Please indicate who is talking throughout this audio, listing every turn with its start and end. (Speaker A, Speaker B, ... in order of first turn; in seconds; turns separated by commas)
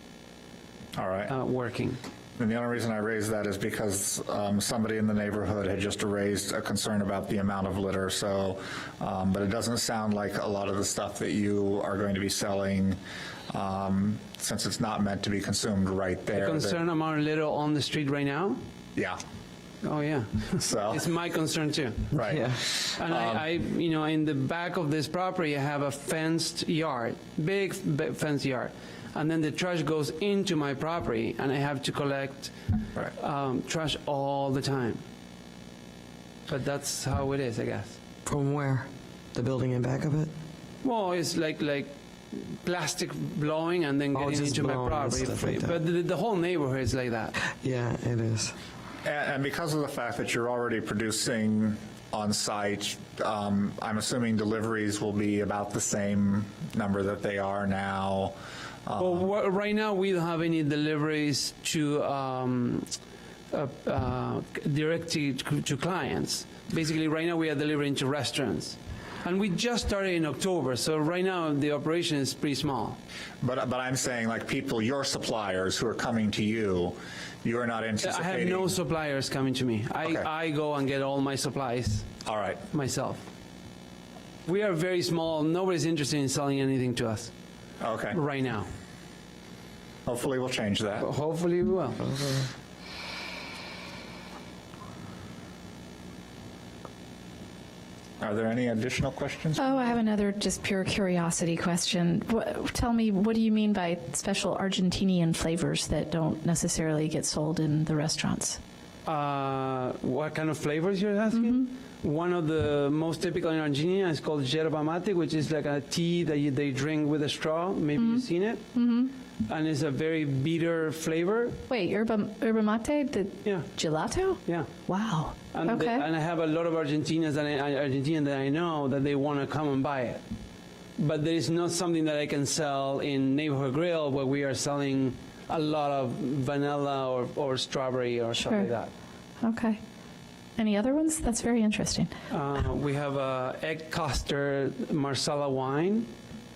Speaker A: 0.9-1.4, Speaker B: 1.3-2.0, Speaker A: 2.4-13.0, Speaker A: 13.5-16.8, Speaker B: 16.3-18.6, Speaker B: 19.8-22.1, Speaker A: 20.6-21.0, Speaker A: 22.1-23.4, Speaker C: 22.2-22.6, Speaker B: 23.0-32.5, Speaker B: 33.1-35.0, Speaker B: 36.5-38.0, Speaker C: 38.3-40.3, Speaker B: 40.8-47.3, Speaker C: 44.1-45.8, Speaker C: 47.5-48.5, Speaker A: 49.0-58.4, Speaker A: 58.9-59.2, Speaker B: 59.0-62.9, Speaker B: 63.5-73.0, Speaker A: 73.4-78.8, Speaker B: 78.0-82.1, Speaker A: 82.2-82.6, Speaker B: 82.7-83.2, Speaker B: 84.5-87.3, Speaker A: 87.8-88.2, Speaker B: 88.1-88.7, Speaker A: 90.1-91.1, Speaker B: 91.0-92.4, Speaker A: 98.2-99.9, Speaker D: 99.6-108.6, Speaker B: 109.0-118.7, Speaker D: 111.3-111.7, Speaker D: 118.0-119.1, Speaker B: 119.4-121.6, Speaker D: 121.7-126.0, Speaker B: 123.4-123.7, Speaker B: 124.4-124.7, Speaker B: 125.5-130.2, Speaker B: 131.0-138.9, Speaker D: 138.4-138.7, Speaker D: 139.4-139.8, Speaker D: 140.6-142.1, Speaker B: 142.3-146.1